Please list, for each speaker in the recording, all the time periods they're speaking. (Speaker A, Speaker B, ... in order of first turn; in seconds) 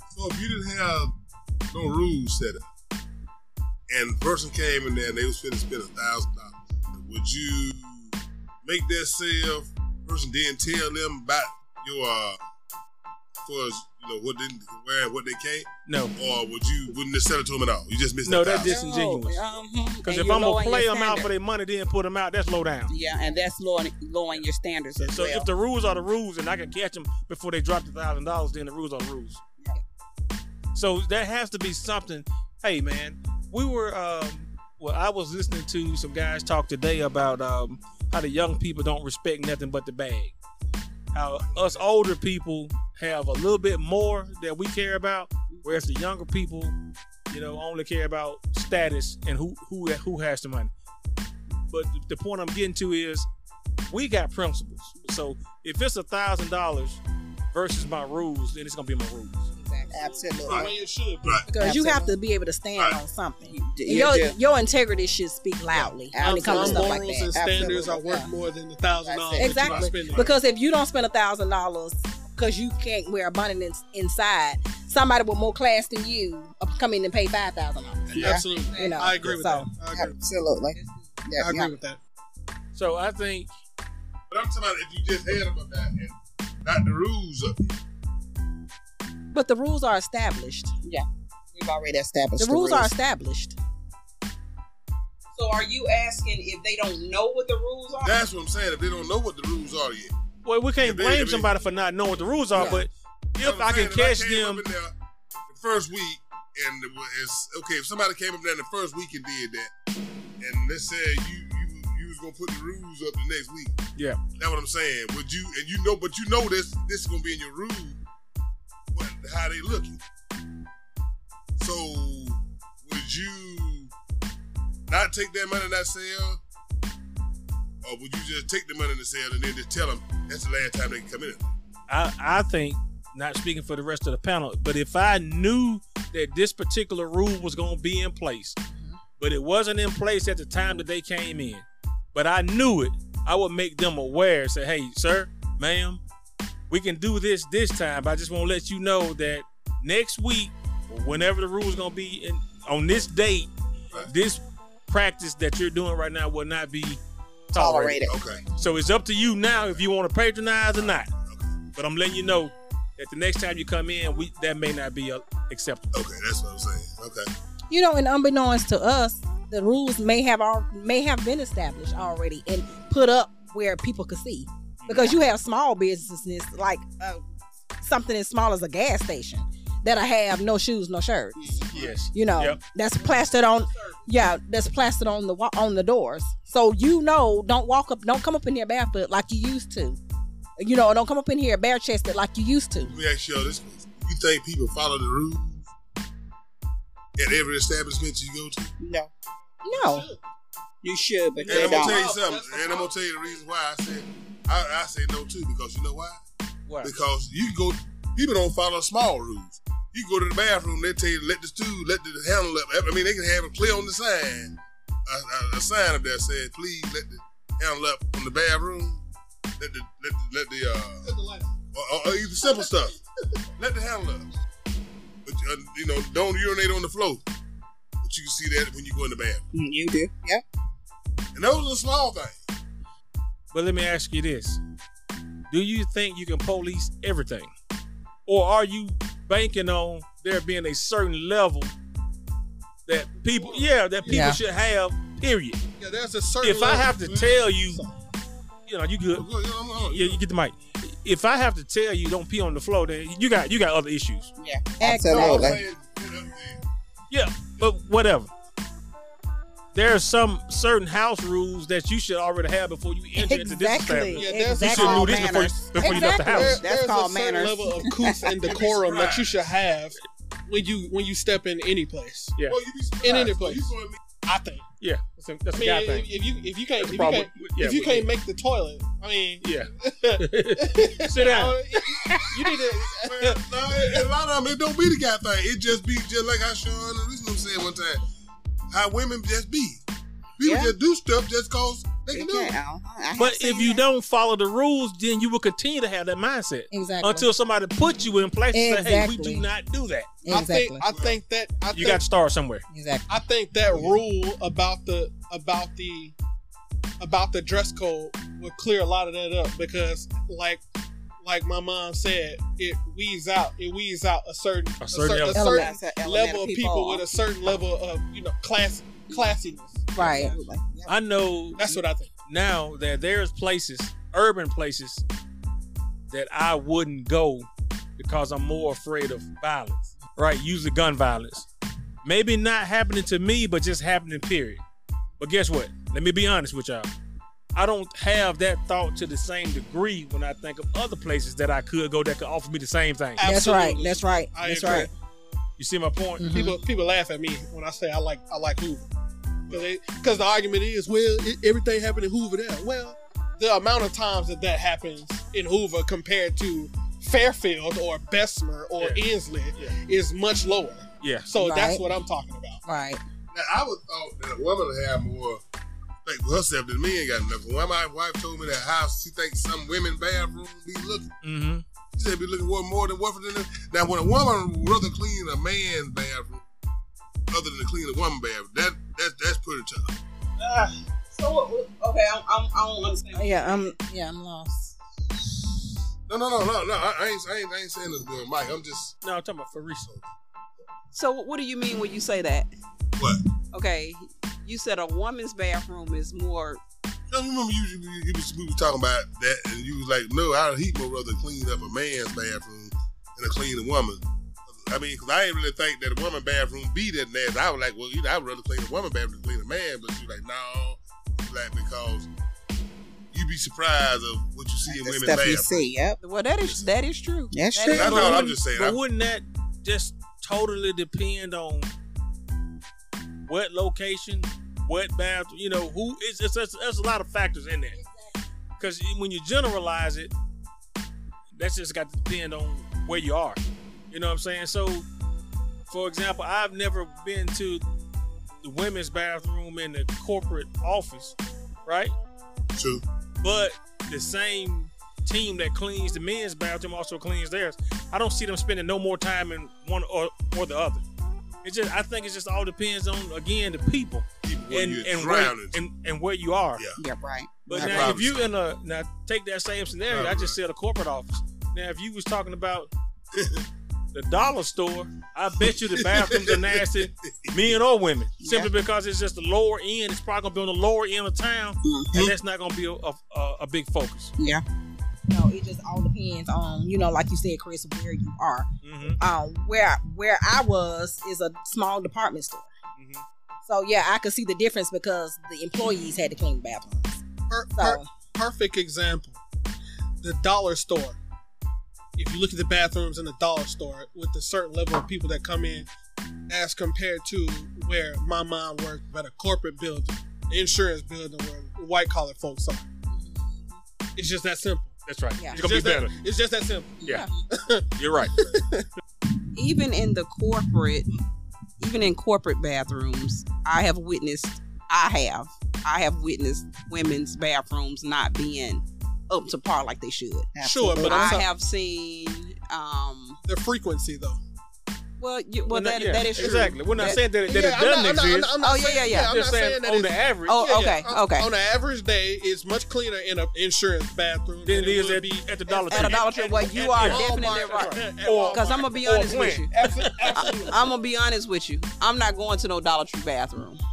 Speaker A: 0.1-1.1, 1.7-2.7, 3.9-12.4, 13.4-18.8, 41.4-41.9, 60.5-60.7, 69.7-70.3, 84.3-86.1, 86.6-87.7, 98.0-100.1, 100.8-102.8, 103.4-104.9, 105.5-109.7, 110.4-113.8, 114.4-118.0, 118.9-120.0, 121.6-123.9, 124.9-126.4, 127.8-131.5, 158.1-158.6, 160.8-161.6, 165.9-167.3, 192.9-195.7, 197.2-198.7, 201.5-206.2, 206.8-219.0, 219.6-221.1, 221.7-222.9, 223.6-224.3, 225.2-227.2, 228.0-229.4, 231.3-232.4, 247.1-247.4, 249.2-250.2, 254.9-256.6, 268.4-269.5, 272.5-274.0, 283.0-288.0, 288.7-289.8, 290.4-292.5, 300.9-301.2, 303.7-304.0, 363.3-365.4, 366.1-371.1, 371.9-376.4, 377.3-379.9, 386.1-388.9, 393.0-393.2, 397.1-404.0, 404.6-412.1, 413.1-415.7, 417.7-418.8, 442.6-442.8, 454.2-455.6, 457.5-458.3, 459.9-460.4, 463.1-463.4, 465.4-467.4
Speaker B: 15.9-16.1, 18.2-19.4, 20.1-22.9, 25.0-29.4, 30.8-40.3, 41.1-46.7, 47.3-50.7, 51.7-53.3, 53.9-57.0, 57.5-59.5, 82.7-83.5, 100.5-104.7, 131.9-138.6, 139.2-146.0, 146.7-158.0, 158.6-161.1, 161.8-165.9, 174.8-175.2, 181.7-182.6, 206.7-206.9, 233.5-234.6, 235.5-237.5, 238.3-241.7, 242.9-245.6, 246.4-247.8, 248.7-249.3, 249.9-254.3, 257.1-258.3, 259.7-266.6, 274.8-276.1, 276.8-278.1, 279.4-282.8, 293.2-300.1, 301.7-302.6, 314.8-315.4, 320.9-325.0, 326.1-331.5, 332.0-334.6, 335.2-336.9, 337.6-343.2, 345.6-346.2, 361.0-361.3, 371.2-371.6, 389.0-389.9, 417.8-421.7, 423.3-427.8, 428.6-430.1, 431.4-433.4, 433.9-434.9, 435.7-437.6, 438.4-441.1, 441.7-441.9, 443.2-450.8, 451.4-456.6, 457.5-462.7, 463.9-474.1, 478.6-479.0, 482.8-483.0, 504.9-505.9, 507.8-508.1, 525.5-528.3, 528.9-530.4, 534.5-540.5
Speaker C: 18.6-21.2, 22.9-25.5, 59.9-60.7, 61.6-62.1, 63.5-64.4, 65.8-68.1, 69.0-69.9, 78.2-78.5, 79.9-81.7, 90.8-92.9, 157.5-158.4, 181.3-181.7, 198.8-199.1, 200.8-202.0, 229.5-230.4, 254.4-255.6, 264.6-268.4, 290.4-290.8, 292.1-293.8, 315.5-317.1, 319.1-319.4, 319.9-320.9, 414.6-416.0, 417.3-418.1, 456.8-458.0, 468.2-468.5, 471.6-472.1, 474.2-474.4, 520.4-521.2
Speaker D: 59.6-60.1, 61.5-67.3, 68.0-68.3, 69.4-79.7, 89.3-90.7, 92.4-93.6, 102.5-102.9, 138.7-139.0, 167.7-177.2, 177.8-181.5, 182.1-190.0, 190.6-192.9, 199.6-200.1, 244.1-244.4, 254.8-255.6, 263.2-266.6, 296.7-297.3, 298.5-299.5, 300.2-300.8, 302.7-303.2, 315.3-315.7, 320.0-320.4, 343.2-344.9, 346.2-346.6, 361.4-361.8, 362.7-363.0, 383.1-384.8, 427.8-428.1, 475.1-482.5, 483.5-487.0, 487.6-487.9, 502.9-503.6, 505.2-505.4, 506.9-507.1
Speaker E: 59.9-61.5, 66.2-70.3, 78.2-80.2, 81.4-82.0, 199.7-200.2, 201.4-203.4, 221.0-221.5, 222.4-222.7, 243.2-244.3, 245.8-248.0, 264.1-265.2, 265.9-272.4, 273.0-274.6, 275.5-284.1, 300.3-302.0, 303.1-306.1, 307.0-310.6, 311.2-320.2, 321.6-322.1, 343.2-344.9, 346.3-348.9, 349.5-362.6, 487.3-489.2, 490.0-491.0, 492.0-495.7, 496.3-502.7, 504.0-504.8, 505.3-508.7, 520.4-521.2, 523.2-524.2, 526.2-540.6
Speaker F: 78.5-79.1, 80.7-81.2, 95.4-98.2, 183.0-184.1, 380.4-383.8, 390.9-392.5, 393.5-396.6, 416.0-418.4, 509.3-510.9, 511.6-523.2, 525.0-527.0, 528.4-529.2, 530.3-531.3, 535.7-543.6